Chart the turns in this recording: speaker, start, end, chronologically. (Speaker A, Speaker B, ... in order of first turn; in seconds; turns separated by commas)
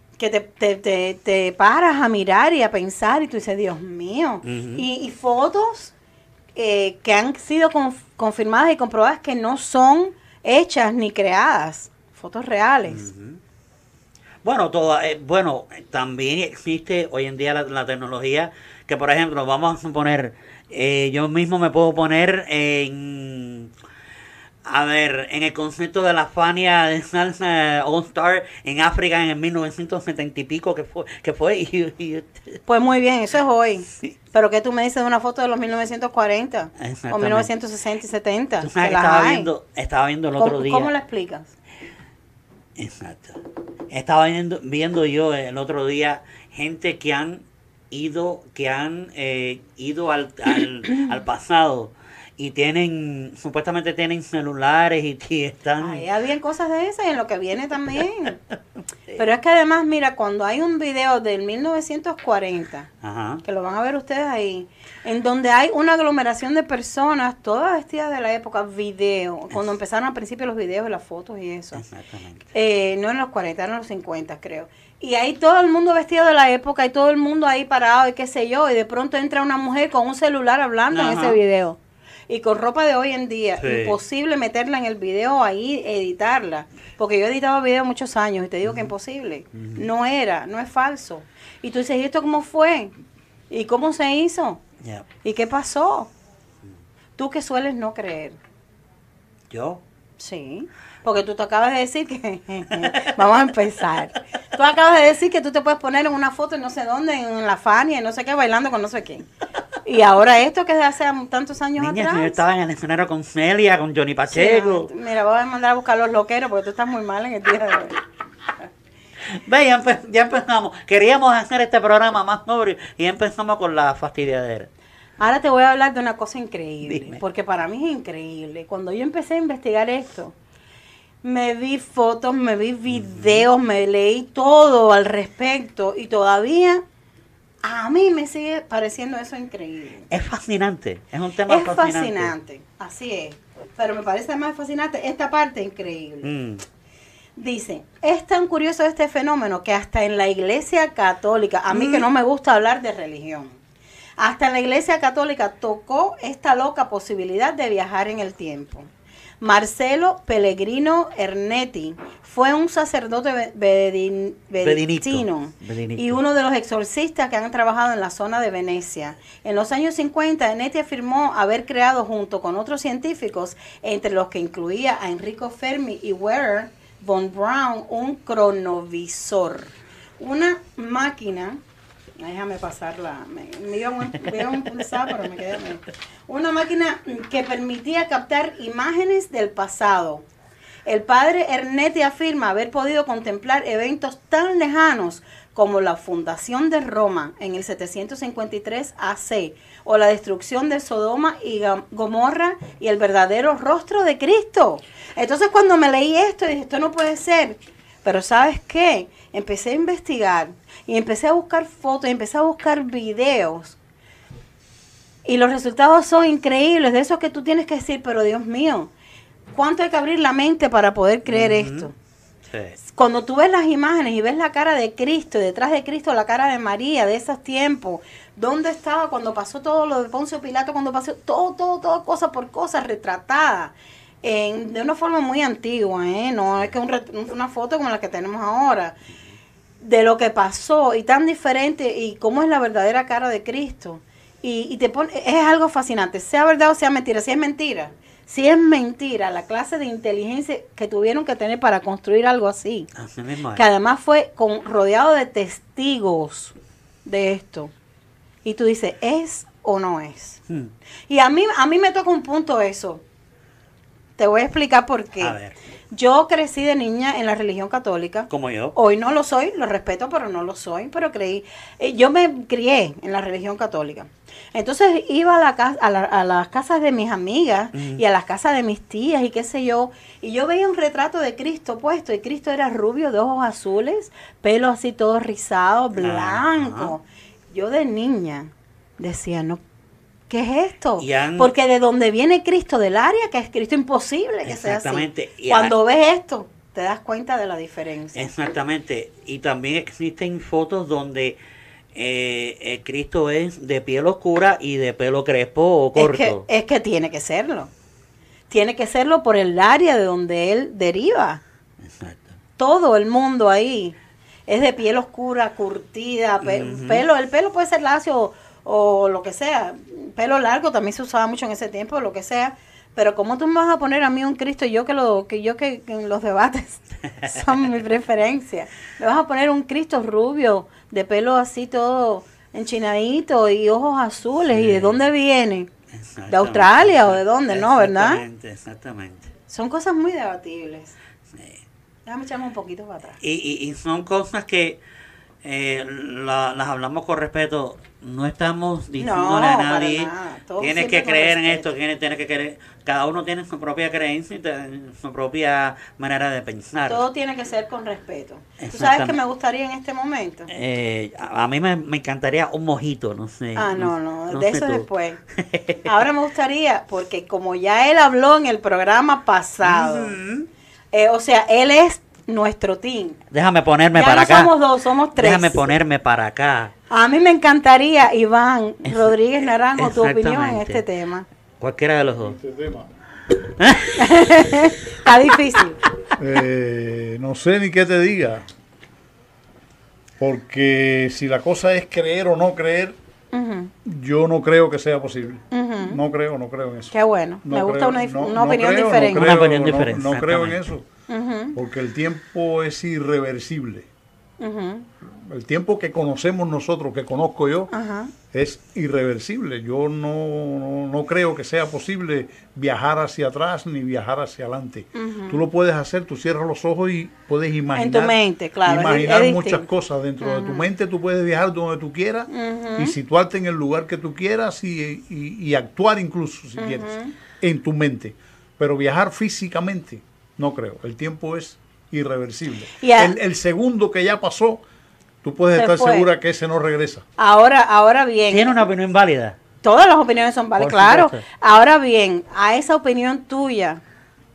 Speaker A: 0.2-5.9, Speaker B: 4.4-4.8, Speaker A: 6.5-13.1, Speaker B: 12.9-13.4, Speaker B: 14.4-23.7, Speaker B: 24.6-32.6, Speaker A: 32.7-39.5, Speaker B: 36.8-37.5, Speaker B: 38.6-40.9, Speaker A: 40.4-41.5, Speaker B: 42.8-56.0, Speaker A: 55.8-58.4, Speaker A: 59.2-62.9, Speaker B: 63.0-63.4, Speaker A: 63.4-71.8, Speaker B: 71.7-72.4, Speaker A: 72.5-81.8, Speaker B: 80.9-81.4, Speaker A: 82.3-92.9, Speaker B: 83.6-84.0, Speaker B: 88.6-88.9, Speaker B: 89.5-89.8, Speaker A: 93.5-94.6, Speaker A: 95.2-96.1, Speaker A: 97.2-98.4, Speaker B: 99.5-99.8, Speaker A: 100.2-109.3, Speaker A: 109.8-112.4, Speaker B: 111.8-114.9, Speaker A: 114.3-118.0, Speaker B: 119.3-124.7, Speaker A: 125.2-130.3, Speaker B: 126.9-127.2, Speaker A: 131.2-136.8, Speaker B: 132.9-133.4, Speaker A: 137.6-140.1, Speaker B: 140.1-142.3, Speaker A: 141.5-146.3, Speaker B: 146.2-146.6, Speaker A: 147.4-153.6, Speaker B: 151.7-152.1, Speaker A: 154.2-158.9, Speaker A: 159.4-181.6, Speaker B: 164.6-166.2, Speaker A: 182.2-190.2, Speaker A: 190.8-213.8, Speaker A: 215.2-218.9, Speaker A: 219.5-221.9, Speaker B: 221.3-221.9, Speaker B: 222.5-222.7, Speaker A: 222.9-238.9, Speaker A: 239.8-252.9, Speaker B: 252.9-253.6, Speaker A: 253.5-256.5, Speaker A: 257.0-257.7, Speaker A: 258.4-260.4, Speaker A: 261.1-263.0, Speaker A: 264.2-265.4, Speaker B: 265.2-265.5, Speaker A: 265.9-289.6, Speaker B: 268.3-268.7, Speaker B: 277.7-278.0, Speaker B: 286.0-286.9, Speaker A: 290.3-298.3, Speaker B: 291.0-291.5, Speaker B: 294.4-295.8, Speaker B: 298.1-301.4, Speaker B: 301.9-306.4, Speaker A: 305.9-307.7, Speaker A: 308.5-311.4, Speaker B: 311.8-312.3, Speaker A: 312.6-313.9, Speaker A: 314.5-335.7, Speaker B: 316.4-317.1, Speaker B: 334.5-335.0, Speaker B: 335.9-339.3, Speaker A: 336.3-338.2, Speaker A: 339.5-340.9, Speaker B: 341.3-341.6, Speaker A: 342.1-343.2, Speaker B: 343.2-344.8, Speaker B: 345.4-357.0, Speaker A: 349.0-351.7, Speaker A: 356.9-360.5, Speaker B: 358.6-359.2, Speaker B: 360.5-365.8, Speaker A: 363.6-365.2, Speaker A: 365.8-370.1, Speaker B: 369.6-370.5, Speaker A: 370.9-373.2, Speaker B: 373.3-374.5, Speaker A: 373.9-375.6, Speaker B: 375.1-376.7, Speaker A: 376.9-381.2, Speaker B: 378.9-379.1, Speaker B: 379.8-380.8, Speaker B: 381.6-382.4, Speaker C: 382.2-382.9, Speaker B: 383.6-384.4, Speaker A: 384.0-385.8, Speaker C: 386.2-388.5, Speaker C: 390.2-392.9, Speaker A: 393.3-393.7, Speaker C: 393.8-396.9, Speaker A: 395.5-396.0, Speaker A: 396.9-399.3, Speaker C: 397.4-400.9, Speaker B: 399.1-400.7, Speaker A: 401.1-401.6, Speaker C: 401.5-403.9, Speaker A: 404.4-404.9, Speaker C: 405.1-407.7, Speaker A: 407.7-408.1, Speaker C: 408.3-434.6, Speaker A: 414.9-415.4, Speaker A: 417.7-419.6, Speaker A: 420.2-420.7, Speaker A: 422.3-422.9, Speaker A: 426.6-427.1, Speaker A: 432.8-433.1, Speaker C: 435.2-437.0, Speaker A: 435.6-436.1, Speaker A: 437.2-438.6, Speaker B: 438.3-439.4, Speaker A: 439.6-443.8, Speaker B: 440.6-441.2